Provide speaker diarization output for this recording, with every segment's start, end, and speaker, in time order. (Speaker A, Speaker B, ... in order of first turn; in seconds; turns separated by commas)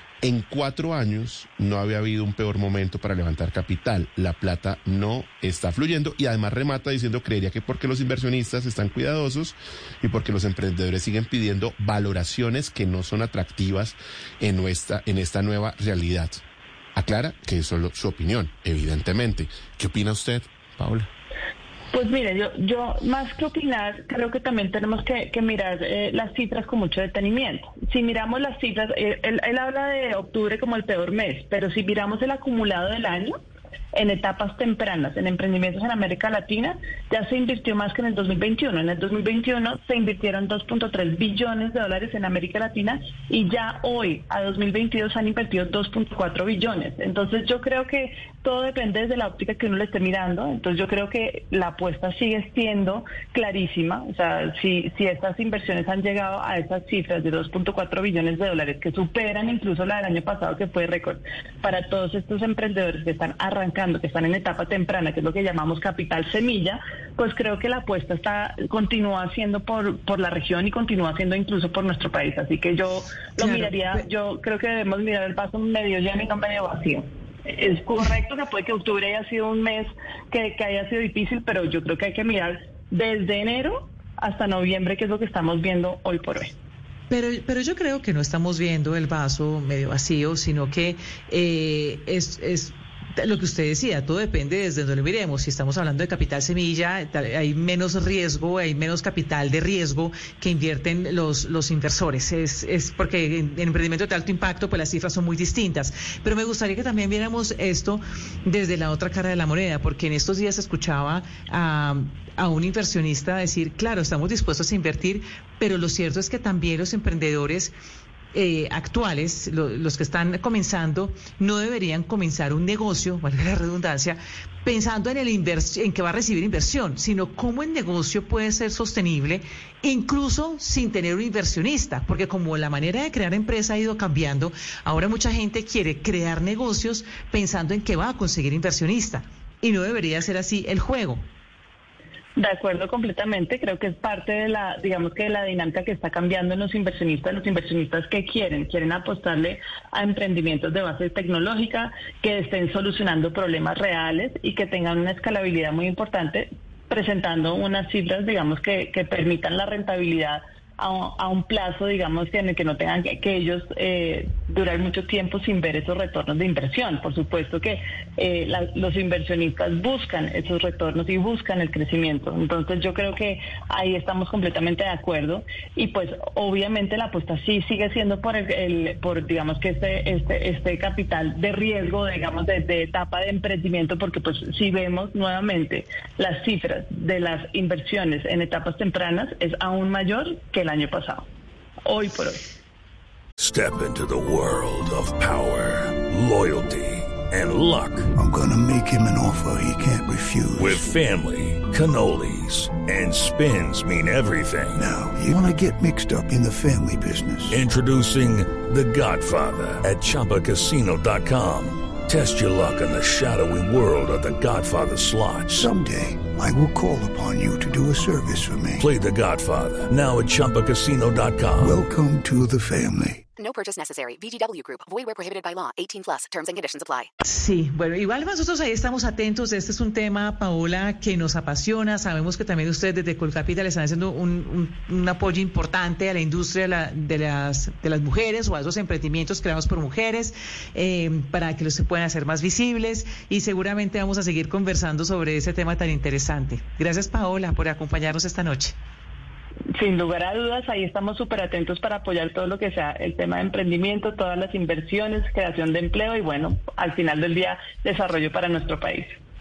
Speaker A: 0.2-16.4, Speaker A: 16.9-21.1, Speaker B: 21.9-33.4, Speaker B: 33.9-86.5, Speaker C: 87.1-117.7, Speaker C: 118.3-141.2, Speaker B: 142.3-191.3, Speaker B: 191.8-192.4, Speaker D: 193.4-198.1, Speaker E: 198.2-200.8, Speaker D: 200.5-204.9, Speaker E: 204.8-207.6, Speaker D: 207.5-215.7, Speaker E: 215.5-218.8, Speaker D: 218.8-221.8, Speaker E: 221.6-223.2, Speaker F: 223.4-227.1, Speaker C: 227.2-248.8, Speaker B: 249.8-259.2